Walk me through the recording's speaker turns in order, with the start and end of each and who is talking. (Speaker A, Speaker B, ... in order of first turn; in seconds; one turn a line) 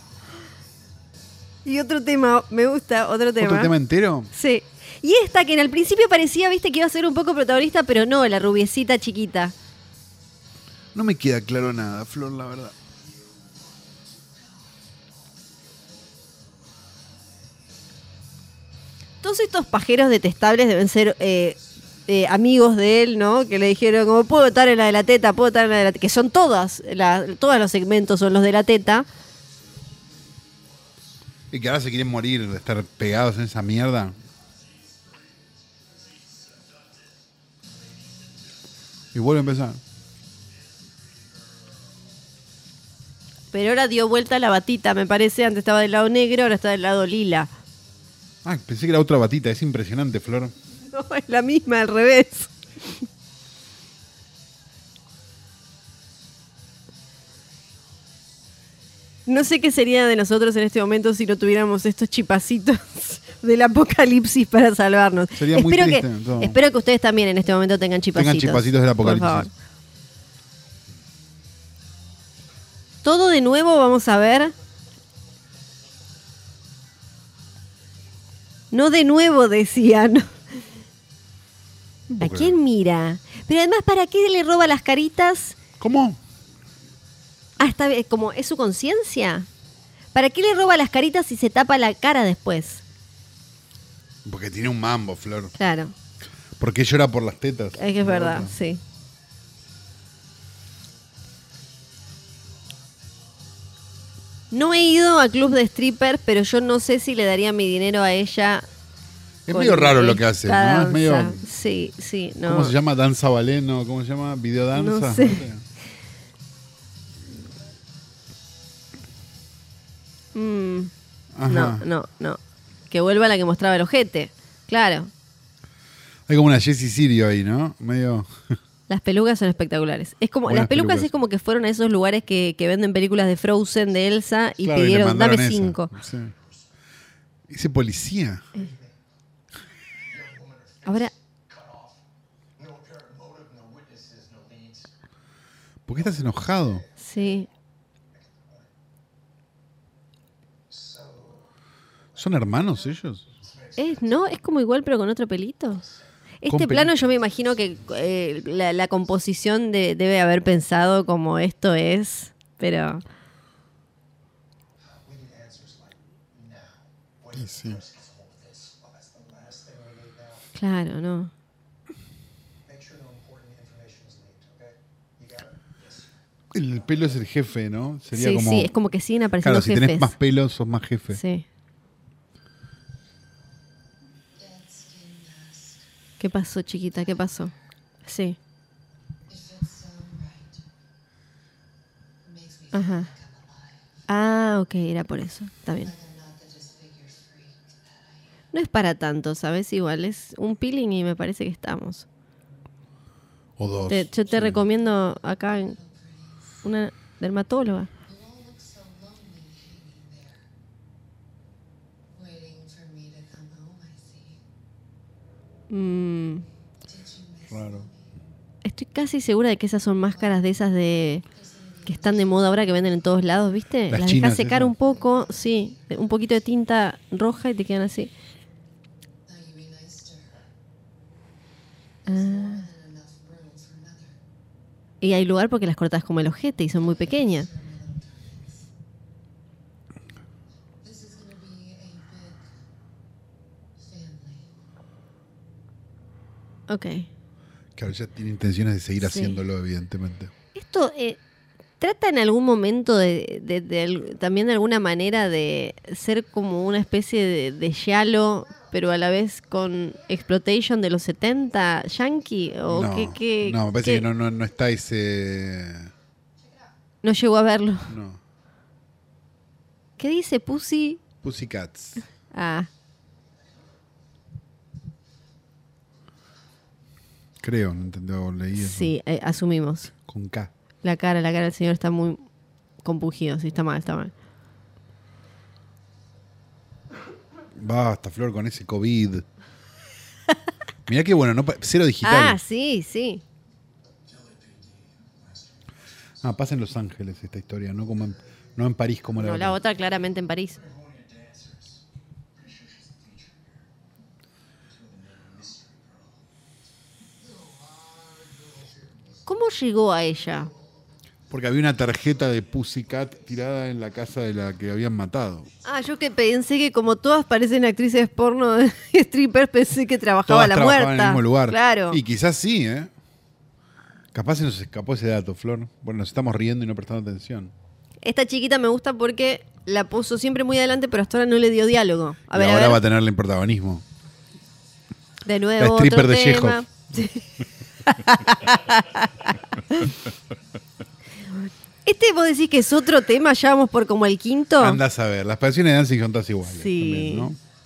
Speaker A: 1.6-3.7
Speaker B: 3.4-4.3
Speaker A: 4.3-9.5
Speaker B: 10.9-12.7
Speaker A: 19.2-29.1
Speaker B: 31.5-34.1
Speaker C: 34.8-35.2
Speaker C: 35.9-37.1
Speaker B: 39.1-39.8
Speaker C: 40.9-41.5
Speaker A: 43.5-47.5
Speaker B: 48.4-50.5
Speaker A: 50.9-52.5
Speaker A: 59.2-69.5
Speaker B: 65.3-66.6
Speaker B: 68.1-69.5
Speaker A: 73.0-74.5
Speaker A: 78.7-80.3
Speaker B: 82.1-82.5
Speaker A: 82.2-85.6
Speaker B: 85.8-86.2
Speaker A: 87.6-89.5
Speaker A: 90.1-92.8
Speaker B: 94.2-95.5
Speaker A: 95.6-95.9
Speaker B: 96.6-98.5
Speaker A: 97.8-98.8
Speaker A: 104.5-108.7
Speaker B: 109.5-111.4
Speaker A: 109.5-112.7
Speaker B: 112.4-115.6
Speaker A: 114.7-115.4
Speaker A: 120.3-120.9
Speaker B: 121.3-121.8
Speaker A: 121.5-122.4
Speaker A: 122.9-125.1
Speaker B: 126.3-128.6
Speaker A: 128.9-135.9
Speaker B: 130.4-131.1
Speaker B: 134.6-136.3
Speaker C: 136.3-136.7
Speaker B: 137.5-138.5
Speaker C: 138.5-138.9
Speaker C: 140.1-142.0
Speaker A: 140.8-141.1
Speaker C: 142.6-144.9
Speaker B: 145.8-146.8
Speaker C: 145.9-147.5
Speaker A: 147.0-147.5
Speaker C: 148.2-148.7
Speaker C: 150.7-151.5
Speaker C: 152.1-154.4
Speaker B: 152.2-153.2
Speaker A: 153.8-155.8
Speaker C: 155.7-156.1
Speaker A: 156.4-163.0
Speaker B: 156.5-156.9
Speaker C: 157.6-158.3
Speaker C: 164.8-170.5
Speaker B: 167.4-167.8
Speaker A: 170.6-171.3
Speaker C: 172.6-177.2
Speaker B: 176.5-178.7
Speaker A: 178.1-180.1
Speaker B: 179.4-181.2
Speaker A: 181.1-181.4
Speaker D: 184.6-185.0
Speaker A: 186.2-187.5
Speaker A: 188.0-188.4
Speaker D: 189.6-190.0
Speaker A: 192.7-193.1
Speaker A: 194.1-195.9
Speaker A: 198.5-202.1
Speaker B: 203.6-204.6
Speaker A: 203.9-205.8
Speaker A: 206.6-207.9
Speaker D: 212.3-213.9
Speaker A: 215.7-216.4
Speaker B: 217.4-217.9
Speaker A: 218.6-221.2
Speaker A: 221.8-228.1
Speaker B: 223.9-224.8
Speaker D: 229.3-229.9
Speaker A: 232.1-232.7
Speaker D: 232.7-234.0
Speaker A: 235.0-237.5
Speaker D: 237.5-238.0
Speaker D: 240.8-242.3
Speaker D: 243.9-244.3
Speaker A: 246.7-247.1
Speaker B: 247.8-250.3
Speaker A: 249.0-249.4
Speaker A: 250.5-251.2
Speaker A: 251.8-264.1
Speaker B: 262.7-265.9
Speaker A: 267.0-267.9
Speaker B: 267.9-268.2
Speaker A: 270.0-271.0
Speaker B: 271.2-272.0
Speaker A: 272.3-272.7
Speaker B: 277.4-278.9
Speaker A: 278.6-279.9
Speaker B: 280.1-280.5
Speaker A: 280.8-282.2
Speaker A: 282.8-284.1
Speaker B: 287.6-289.2
Speaker B: 290.9-292.4
Speaker A: 292.0-293.2
Speaker C: 294.0-296.3
Speaker B: 296.2-299.6
Speaker A: 299.2-300.6
Speaker C: 300.5-303.6
Speaker C: 304.7-306.2
Speaker C: 307.6-309.2
Speaker A: 309.2-310.5
Speaker B: 311.3-315.5
Speaker A: 315.6-322.0
Speaker B: 320.3-322.9
Speaker B: 324.1-327.5
Speaker A: 328.0-332.8
Speaker B: 332.3-333.8
Speaker A: 335.2-337.2
Speaker B: 335.6-336.6
Speaker A: 337.8-339.9
Speaker A: 341.8-344.8
Speaker B: 344.6-347.4
Speaker A: 346.5-347.3